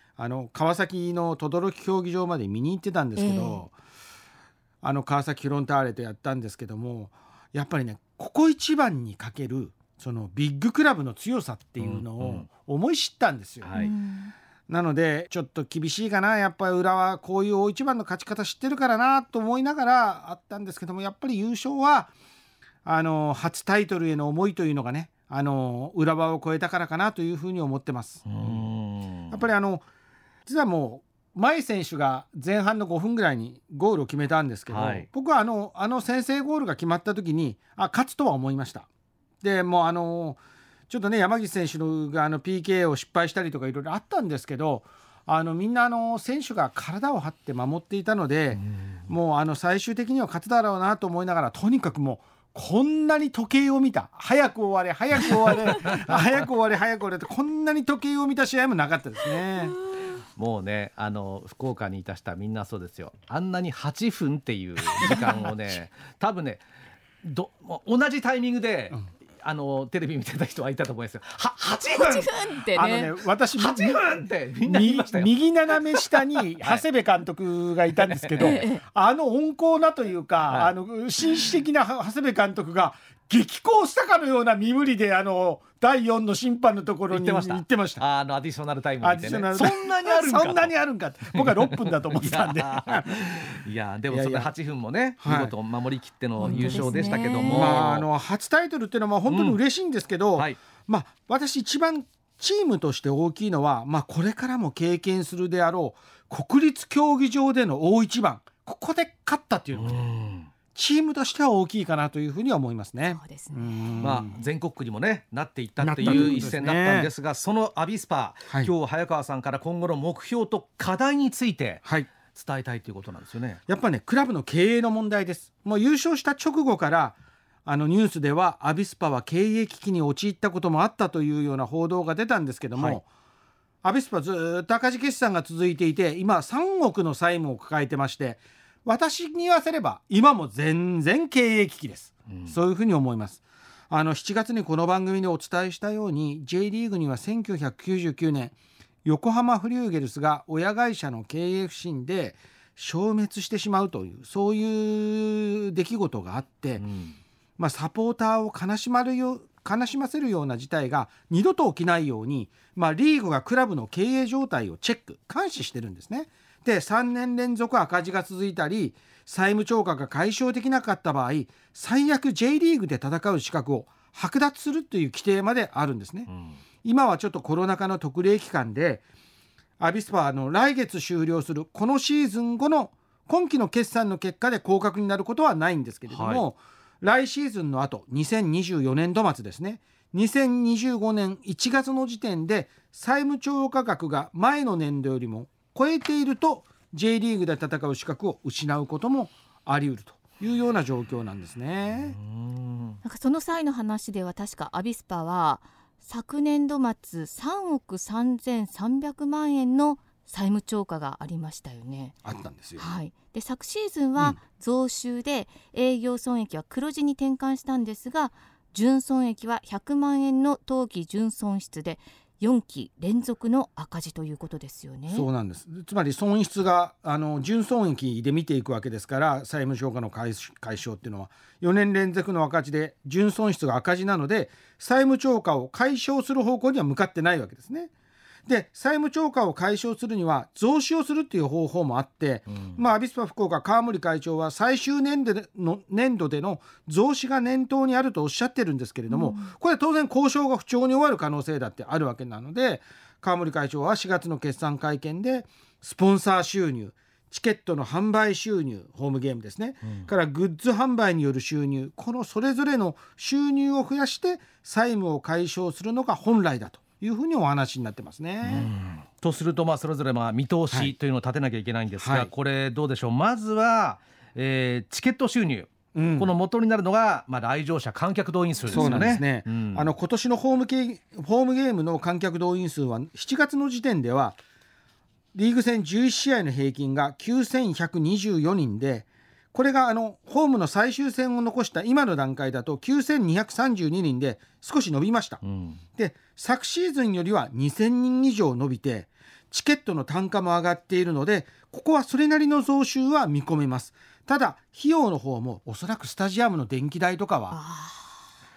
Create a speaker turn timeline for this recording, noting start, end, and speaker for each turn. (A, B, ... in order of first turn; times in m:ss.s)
0:00.2-0:03.7 A
0:03.2-0:03.6 B
0:04.8-0:13.7 A
0:11.8-0:12.5 C
0:13.6-0:13.9 C
0:13.7-0:14.3 B
0:14.7-0:22.1 A
0:22.8-0:28.7 A
0:28.2-0:29.4 C
0:29.3-0:29.8 A
0:30.4-0:38.9 A
0:34.7-0:35.1 C
0:39.4-0:59.8 A
0:48.6-0:49.0 C
0:55.7-0:56.4 C
1:00.3-1:06.6 C
1:07.2-1:12.3 C
1:11.9-1:13.1 B
1:12.7-1:14.1 A
1:13.6-1:16.8 C
1:14.6-1:28.0 A
1:18.2-1:18.6 C
1:18.4-1:18.8 B
1:27.1-1:30.7 C
1:29.0-1:33.5 A
1:31.3-1:38.0 C
1:34.1-1:34.5 A
1:35.2-1:35.5 A
1:36.4-1:37.8 B
1:36.4-1:50.1 A
1:39.3-1:39.6 C
1:49.7-1:50.5 C
1:50.7-1:54.3 A
1:53.0-1:54.0 B
1:54.0-2:03.6 C
1:55.8-1:57.1 A
1:56.0-1:56.5 B
2:01.8-2:02.1 A
2:03.7-2:13.0 A
2:12.7-2:13.0 C
2:13.8-2:36.8 A
2:36.8-2:37.2 C
2:37.6-2:56.3 A
2:56.3-2:56.6 C
2:56.8-2:59.0 A
2:59.8-3:22.2 A
3:06.1-3:06.4 C
3:22.2-3:23.0 C
3:23.0-3:32.1 B
3:32.2-3:32.9 A
3:32.8-3:45.3 B
3:45.1-3:57.9 A
3:58.5-4:28.7 A
4:09.1-4:09.5 B
4:28.4-4:39.9 C
4:32.0-4:32.3 A
4:35.9-4:36.3 A
4:38.7-4:39.2 B
4:38.7-4:44.4 A
4:45.3-4:55.4 A
4:55.4-4:55.8 C
4:56.0-5:07.6 A
5:07.5-5:08.2 B